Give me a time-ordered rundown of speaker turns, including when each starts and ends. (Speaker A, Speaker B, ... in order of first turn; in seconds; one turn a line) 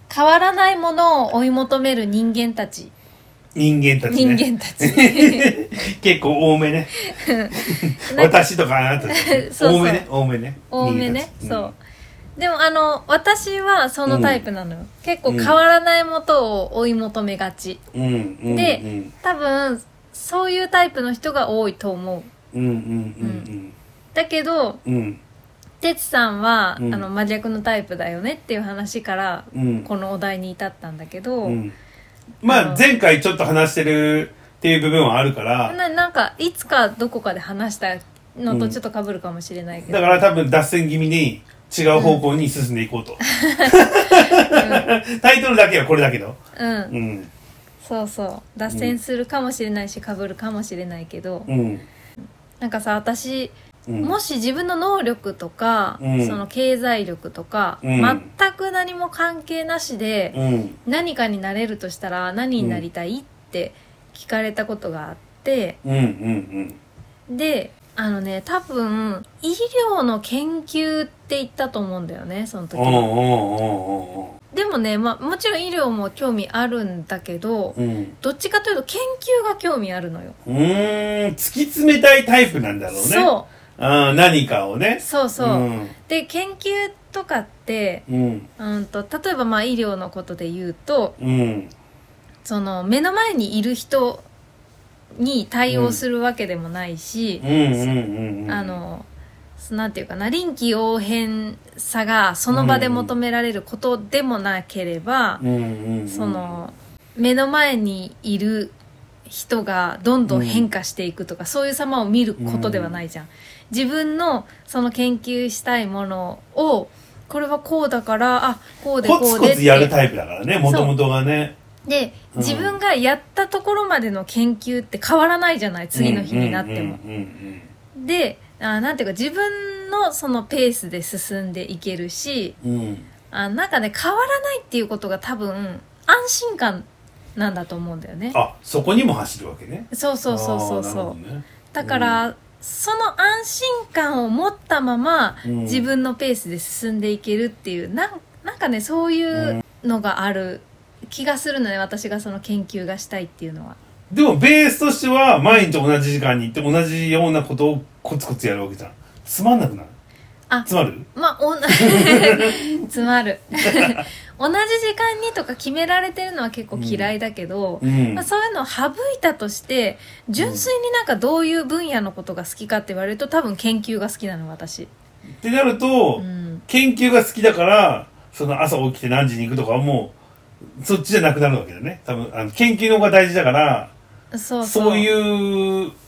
Speaker A: 0.1-2.9
Speaker B: 3.5-6.9
Speaker A: 4.1-5.5
Speaker A: 7.0-8.4
Speaker B: 7.5-11.7
Speaker A: 9.1-10.1
Speaker A: 10.7-11.8
Speaker A: 12.4-17.8
Speaker B: 14.1-14.4
Speaker B: 15.3-15.6
Speaker B: 17.9-19.1
Speaker A: 18.5-22.3
Speaker B: 22.5-23.8
Speaker A: 23.2-23.5
Speaker A: 24.1-24.8
Speaker B: 24.9-25.2
Speaker A: 25.8-31.6
Speaker B: 26.8-27.1
Speaker B: 29.5-29.9
Speaker B: 31.4-31.8
Speaker B: 32.4-35.8
Speaker A: 32.5-32.8
Speaker A: 35.7-40.3
Speaker B: 38.5-38.8
Speaker B: 39.9-46.4
Speaker A: 42.0-42.2
Speaker A: 43.2-44.9
Speaker A: 46.6-47.0
Speaker B: 46.9-47.3
Speaker A: 47.8-51.5
Speaker B: 48.7-49.0
Speaker B: 51.5-51.9
Speaker A: 52.6-65.8
Speaker B: 53.9-54.2
Speaker B: 56.0-56.4
Speaker B: 57.8-58.2
Speaker B: 60.3-60.8
Speaker B: 62.6-62.9
Speaker B: 65.8-66.8
Speaker A: 67.3-73.1
Speaker B: 72.7-74.3
Speaker A: 74.5-80.4
Speaker B: 77.8-78.2
Speaker B: 80.5-85.9
Speaker A: 82.9-83.5
Speaker A: 85.0-88.0
Speaker B: 88.1-88.5
Speaker A: 88.6-91.2
Speaker B: 91.2-91.7
Speaker A: 92.5-94.3
Speaker A: 95.2-97.9
Speaker B: 95.7-96.0
Speaker B: 97.4-98.8
Speaker A: 98.5-99.1
Speaker A: 99.6-105.4
Speaker B: 102.5-103.1
Speaker B: 105.4-106.6
Speaker A: 106.1-108.8
Speaker A: 109.3-119.9
Speaker B: 110.3-110.7
Speaker B: 112.4-113.0
Speaker B: 119.0-121.6
Speaker A: 120.7-120.9
Speaker A: 121.8-127.0
Speaker B: 122.3-122.8
Speaker B: 125.9-127.7
Speaker A: 128.0-132.6
Speaker B: 132.6-133.1
Speaker A: 133.3-138.4
Speaker B: 138.3-142.2
Speaker A: 139.9-141.2
Speaker A: 141.7-153.8
Speaker B: 145.4-145.9
Speaker B: 149.3-149.6
Speaker B: 154.1-159.9
Speaker A: 160.5-174.9
Speaker B: 160.7-161.1
Speaker B: 161.7-162.7
Speaker B: 163.7-164.0
Speaker B: 166.7-167.1
Speaker B: 167.8-168.3
Speaker B: 170.4-170.7
Speaker B: 175.4-180.1
Speaker A: 176.2-176.6
Speaker B: 180.8-183.9
Speaker A: 184.3-185.1
Speaker B: 184.6-185.9